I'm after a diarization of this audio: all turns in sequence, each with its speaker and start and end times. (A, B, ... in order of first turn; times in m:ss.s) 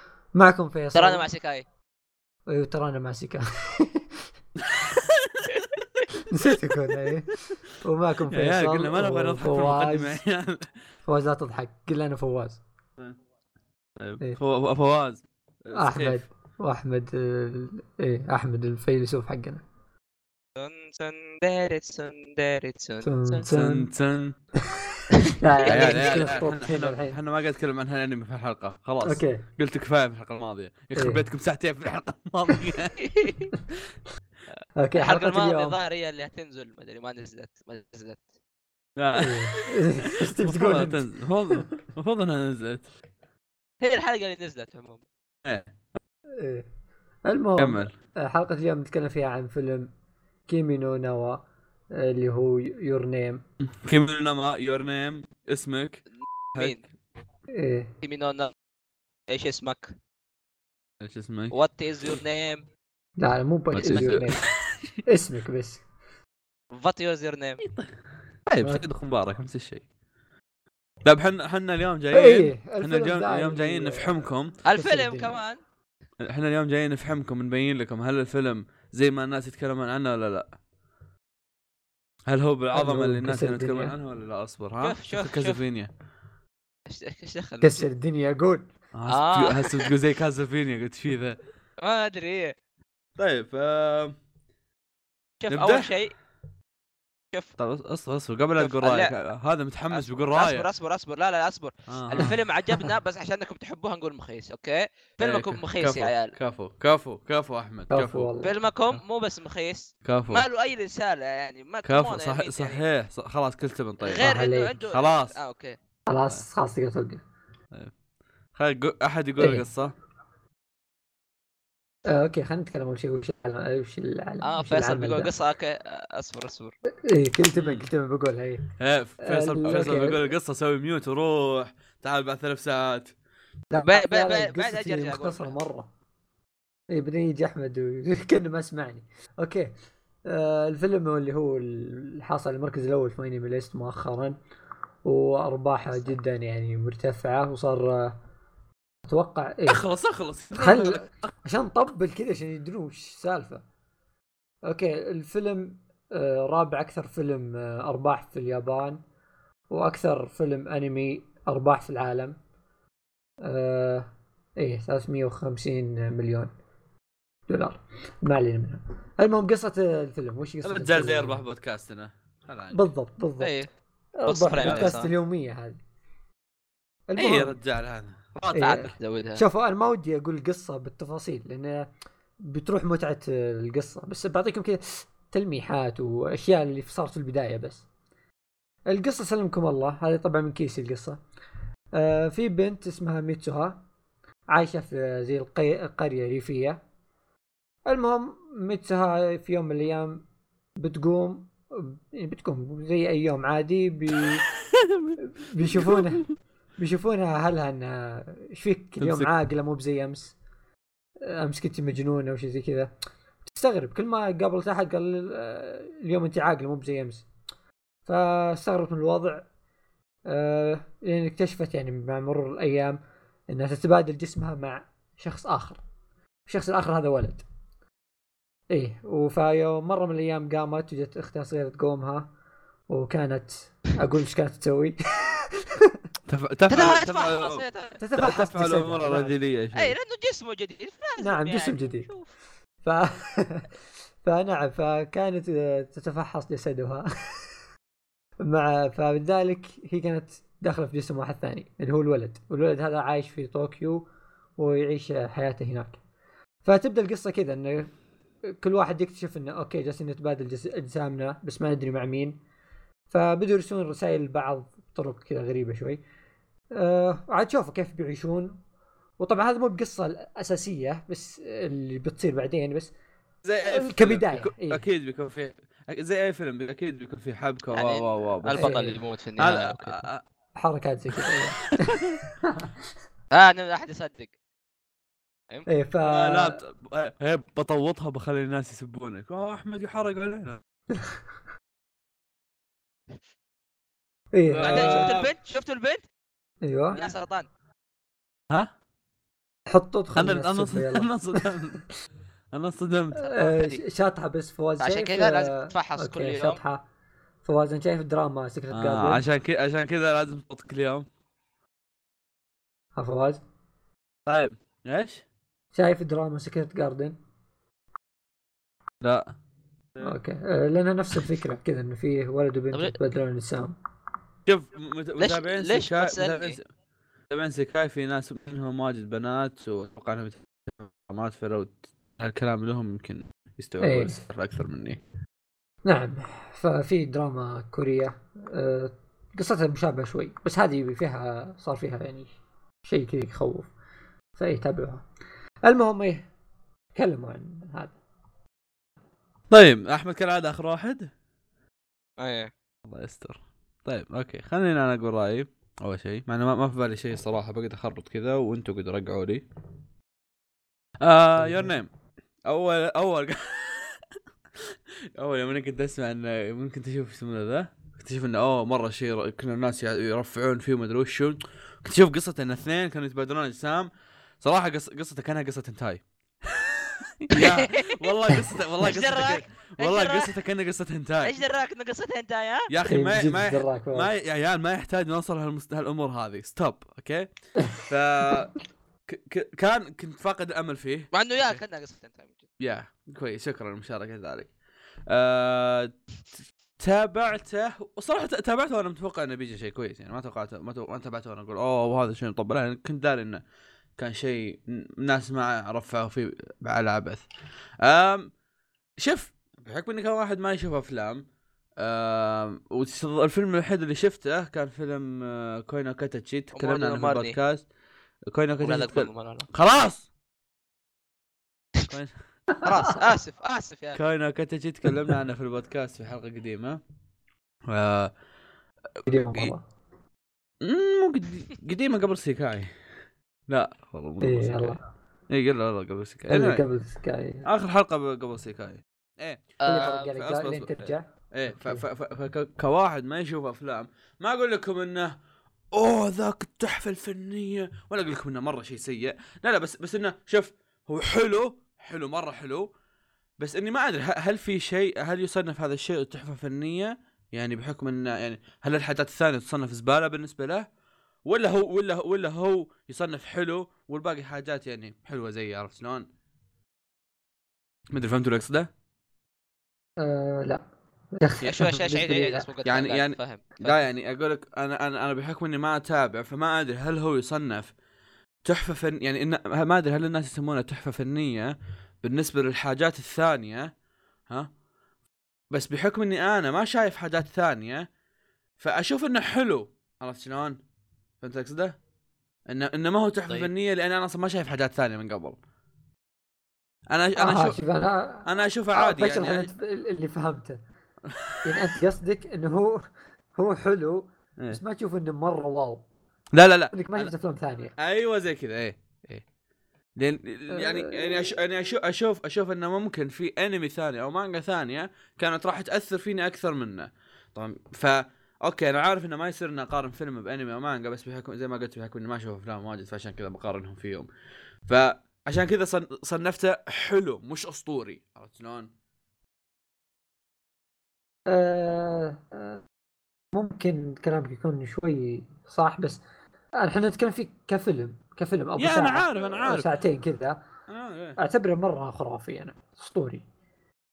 0:00.3-0:01.2 A
0:00.9-0:01.6 B
0:02.5-0:04.1 A
0:04.6-0:05.6 C
0:06.3-0:10.2 A
0:08.3-0:10.7 C
0:11.0-0:12.6 A
0:14.0-0:16.2 C
0:15.7-0:19.6 A
0:20.6-0:23.4 B
0:23.0-0:23.9 A
0:23.5-0:24.4 C
0:25.3-0:27.2 A
0:25.6-0:26.4 B
0:25.7-0:33.3 C
0:29.0-0:29.4 A
0:30.9-0:31.2 A
0:33.0-0:33.5 B
0:34.8-0:35.8 A
0:35.0-0:38.2 B
0:39.0-0:42.9 C
0:39.2-0:41.6 A
0:43.8-0:45.0 B
0:46.4-0:46.6 A
0:47.2-0:49.9 A
0:47.6-0:47.9 C
0:50.5-0:51.4 A
0:51.9-0:53.4 A
0:53.8-0:56.0 C
0:56.5-0:56.8 C
0:57.5-0:57.9 A
0:58.0-0:58.5 B
0:59.3-0:59.9 B
1:01.0-1:01.5 C
1:01.5-1:02.6 B
1:03.2-1:04.4 A
1:03.7-1:04.7 C
1:05.0-1:05.8 A
1:06.7-1:07.6 B
1:07.6-1:07.9 C
1:08.5-1:09.8 C
1:08.6-1:08.9 A
1:11.0-1:14.5 C
1:12.1-1:15.4 A
1:14.6-1:15.6 B
1:16.2-1:20.5 C
1:22.3-1:25.9 C
1:22.7-1:24.0 A
1:24.8-1:25.6 B
1:26.9-1:27.9 B
1:27.6-1:28.7 A
1:28.9-1:31.4 C
1:29.1-1:29.9 B
1:31.8-1:32.5 B
1:33.2-1:34.2 C
1:35.4-1:36.1 B
1:35.5-1:35.9 C
1:37.6-1:40.6 C
1:38.6-1:39.1 B
1:39.9-1:46.3 B
1:41.9-1:42.3 C
1:45.2-1:48.3 C
1:47.9-1:48.5 A
1:48.4-1:52.8 B
1:50.0-1:50.4 C
1:51.8-1:54.4 C
1:54.0-1:55.8 B
1:54.2-1:54.7 A
1:54.9-1:55.4 C
1:56.1-1:57.2 A
1:58.6-1:59.9 C
1:59.4-1:59.6 A
2:02.1-2:05.3 A
2:04.4-2:06.8 B
2:07.0-2:08.6 A
2:07.5-2:07.9 C
2:08.8-2:13.1 C
2:09.2-2:10.2 A
2:13.7-2:15.9 A
2:13.8-2:15.5 B
2:16.9-2:19.7 A
2:20.2-2:24.4 A
2:25.0-2:28.2 A
2:29.1-2:29.8 A
2:29.7-2:31.2 C
2:30.5-2:33.6 A
2:34.6-2:39.0 A
2:39.7-2:42.4 A
2:43.4-2:46.5 A
2:47.5-2:51.4 A
2:50.6-2:52.8 C
2:52.7-2:53.5 A
2:53.4-2:53.7 B
2:54.2-2:55.8 A
2:54.3-2:55.1 B
2:54.6-2:54.9 C
2:57.1-2:57.6 A
2:57.2-2:58.3 C
2:58.3-2:59.4 B
2:58.5-3:01.9 A
3:02.4-3:07.8 A
3:08.9-3:11.2 A
3:11.9-3:13.8 A
3:14.5-3:16.8 A
3:17.8-3:20.2 A
3:20.8-3:24.4 A
3:24.7-3:26.2 C
3:25.2-3:26.2 A
3:26.8-3:30.4 A
3:29.0-3:29.3 C
3:31.2-3:32.9 A
3:33.5-3:37.3 A
3:38.1-3:39.4 A
3:40.3-3:45.8 A
3:46.5-3:47.4 A
3:48.7-3:52.3 A
3:52.9-3:55.9 A
3:56.3-3:57.6 C
3:56.7-3:58.0 B
3:58.0-3:59.4 A
3:58.2-3:59.9 C
3:59.7-4:02.2 B
4:01.2-4:02.1 A
4:02.8-4:03.7 A
4:04.2-4:07.4 A
4:08.4-4:14.0 A
4:14.6-4:16.0 A
4:16.6-4:17.9 A
4:18.5-4:22.4 A
4:23.1-4:26.0 A
4:26.7-4:28.6 A
4:29.2-4:32.9 A
4:33.4-4:38.8 C
4:33.7-4:34.8 A
4:37.7-4:40.0 B
4:38.5-4:39.0 A
4:39.4-4:40.2 C
4:40.6-4:42.7 A
4:41.2-4:42.2 C
4:43.3-4:44.3 B
4:45.7-4:46.6 A
4:46.0-4:50.6 C
4:50.9-4:51.2 A
4:54.3-4:55.1 A
4:54.5-4:56.0 B
4:54.6-4:55.3 C
4:56.6-4:57.1 A
4:56.9-4:57.5 B
4:59.7-5:01.8 A
5:00.1-5:01.8 C
5:02.5-5:03.2 C
5:03.2-5:06.8 A
5:03.2-5:03.8 B
5:04.8-5:06.6 B
5:07.4-5:09.2 A
5:08.7-5:11.1 C
5:13.0-5:13.4 A
5:14.2-5:15.2 C
5:15.7-5:17.2 A
5:19.0-5:19.3 C
5:20.0-5:23.7 A
5:24.4-5:26.6 C
5:25.2-5:26.6 B
5:27.3-5:35.0 C
5:33.8-5:34.2 A
5:35.8-5:42.3 A
5:42.8-5:43.7 A
5:44.4-5:45.0 A
5:45.6-5:46.2 A
5:46.9-5:48.0 A
5:49.5-5:51.1 C
5:52.2-5:52.5 B
5:52.8-5:59.4 C
6:01.0-6:01.9 C
6:01.4-6:01.7 A
6:02.4-6:04.0 C
6:04.6-6:13.9 C
6:14.4-6:21.3 C
6:17.3-6:18.1 B
6:18.8-6:20.3 B
6:21.2-6:22.7 B
6:22.7-6:28.5 C
6:22.9-6:24.1 A
6:29.1-6:31.6 C
6:31.1-6:32.5 B
6:32.6-6:34.5 C
6:35.1-6:35.9 C
6:36.8-6:43.4 C
6:44.0-6:47.2 C
6:47.8-6:48.3 C
6:49.0-6:51.2 C
6:51.8-6:57.6 C
6:56.5-6:57.4 B
6:58.3-7:00.1 C
6:58.6-6:59.5 B
7:02.6-7:02.9 A
7:02.6-7:04.0 B
7:03.9-7:06.8 C
7:07.7-7:08.1 C
7:09.0-7:09.6 A
7:10.6-7:12.7 C
7:13.5-7:14.8 C
7:14.2-7:14.8 A
7:15.3-7:16.6 C
7:16.3-7:17.5 A
7:17.4-7:25.1 C
7:19.6-7:19.9 B
7:19.6-7:21.8 A
7:25.7-7:32.7 C
7:33.4-7:40.7 C
7:41.2-7:46.0 C
7:47.9-7:48.7 C
7:50.0-7:50.6 A
7:51.2-7:52.5 A
7:51.4-7:53.7 B
7:52.6-7:57.7 C
7:58.4-8:03.7 C
8:05.5-8:07.9 C
8:08.6-8:10.6 C
8:11.2-8:11.8 C
8:12.5-8:15.4 C
8:16.9-8:17.6 C
8:17.2-8:20.6 A
8:18.2-8:19.5 C
8:21.1-8:21.7 C
8:21.4-8:25.8 A
8:26.3-8:27.1 C
8:26.7-8:27.7 A
8:27.8-8:29.2 C
8:30.0-8:44.1 C
8:30.5-8:31.3 A
8:44.7-8:48.7 C
8:51.3-8:52.6 A
8:53.3-8:56.0 A
8:56.6-9:00.4 A
8:58.6-8:59.7 C
9:00.7-9:01.2 C
9:01.2-9:03.2 A